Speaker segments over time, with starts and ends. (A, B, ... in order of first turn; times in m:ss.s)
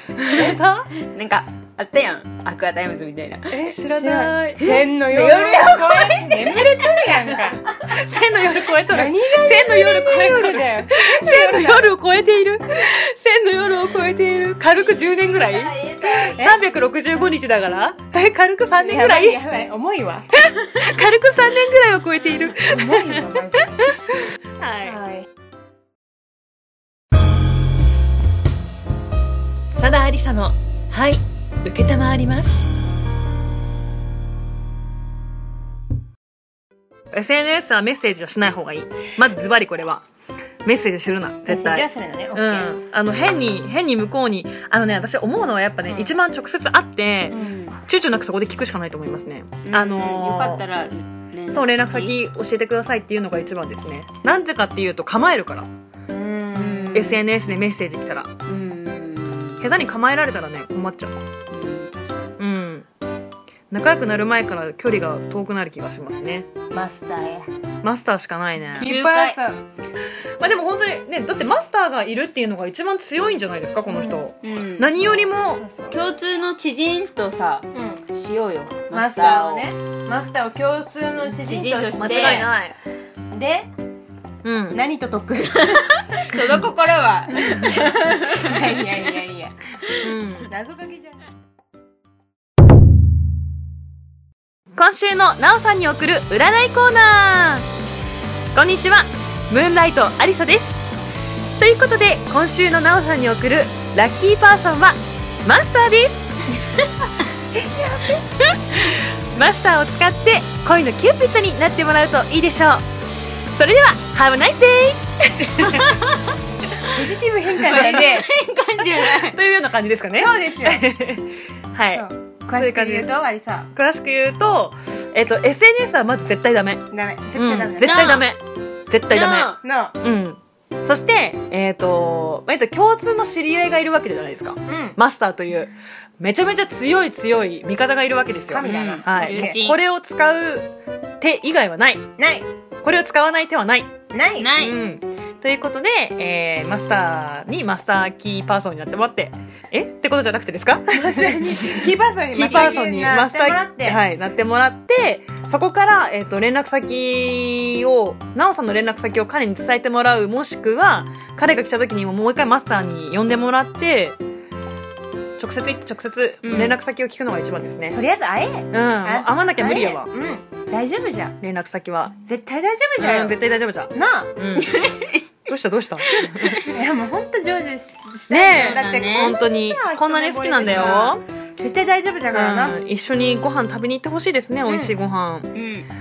0:00.2-0:00.9 A
0:00.3-0:03.7 B
0:03.5-0:04.8 A
0:03.9-0:07.6 C
0:04.6-0:07.4 B
0:07.8-0:19.4 A
0:08.9-0:12.0 C
0:14.6-0:16.7 B
0:18.8-0:20.3 C
0:20.3-0:25.0 A
0:22.6-0:24.0 C
0:24.8-0:25.3 C
0:29.7-0:32.7 A
0:37.1-0:40.0 A
0:40.6-0:50.6 A
0:41.5-0:42.7 C
0:45.9-0:46.2 C
0:47.3-0:47.8 B
0:49.6-0:52.2 B
0:51.5-0:55.7 A
0:56.1-0:57.1 C
0:56.5-0:57.2 B
0:57.0-0:58.3 A
0:58.5-0:59.7 B
0:59.6-1:01.2 A
1:01.5-1:02.4 B
1:02.4-1:02.9 A
1:03.7-1:06.5 A
1:06.7-1:07.4 C
1:06.9-1:07.4 B
1:07.8-1:08.9 A
1:08.8-1:09.6 C
1:08.8-1:09.4 B
1:10.4-1:15.6 A
1:13.9-1:14.2 C
1:14.4-1:15.3 B
1:15.6-1:16.0 C
1:15.9-1:19.7 B
1:17.7-1:18.0 C
1:18.9-1:22.5 C
1:21.2-1:22.7 B
1:22.0-1:22.7 A
1:23.3-1:23.7 C
1:24.4-1:24.8 A
1:24.7-1:25.9 C
1:25.6-1:29.2 B
1:27.4-1:29.7 C
1:30.0-1:30.5 A
1:30.4-1:31.2 C
1:34.7-1:37.7 A
1:38.6-1:40.8 A
1:41.6-1:46.3 A
1:48.7-1:52.9 A
1:53.5-1:56.0 A
1:55.7-1:56.2 B
1:56.8-1:58.3 C
1:57.6-1:59.4 B
1:57.7-1:58.1 A
1:58.9-2:03.1 A
2:00.2-2:00.9 C
2:01.9-2:03.7 C
2:03.7-2:22.1 A
2:06.9-2:08.1 C
2:07.8-2:08.3 B
2:09.1-2:09.6 B
2:09.6-2:10.0 C
2:14.7-2:15.0 C
2:18.5-2:19.6 C
2:18.6-2:19.8 B
2:22.2-2:22.5 C
2:22.8-2:23.9 A
2:24.1-2:24.6 C
2:24.4-2:24.8 B
2:24.6-2:44.2 A
2:30.9-2:34.0 C
2:45.4-2:48.0 A
2:46.4-2:46.8 B
2:47.9-2:51.4 C
2:48.7-2:50.1 A
2:51.4-2:52.2 A
2:52.2-2:53.4 C
2:53.0-2:54.8 A
2:53.9-2:54.3 C
2:54.6-2:55.3 B
2:55.4-2:56.7 A
2:56.2-2:56.6 B
2:56.6-3:02.8 C
2:58.3-3:01.2 A
2:58.5-2:59.4 B
3:02.3-3:05.5 A
3:04.7-3:04.9 C
3:05.5-3:05.9 B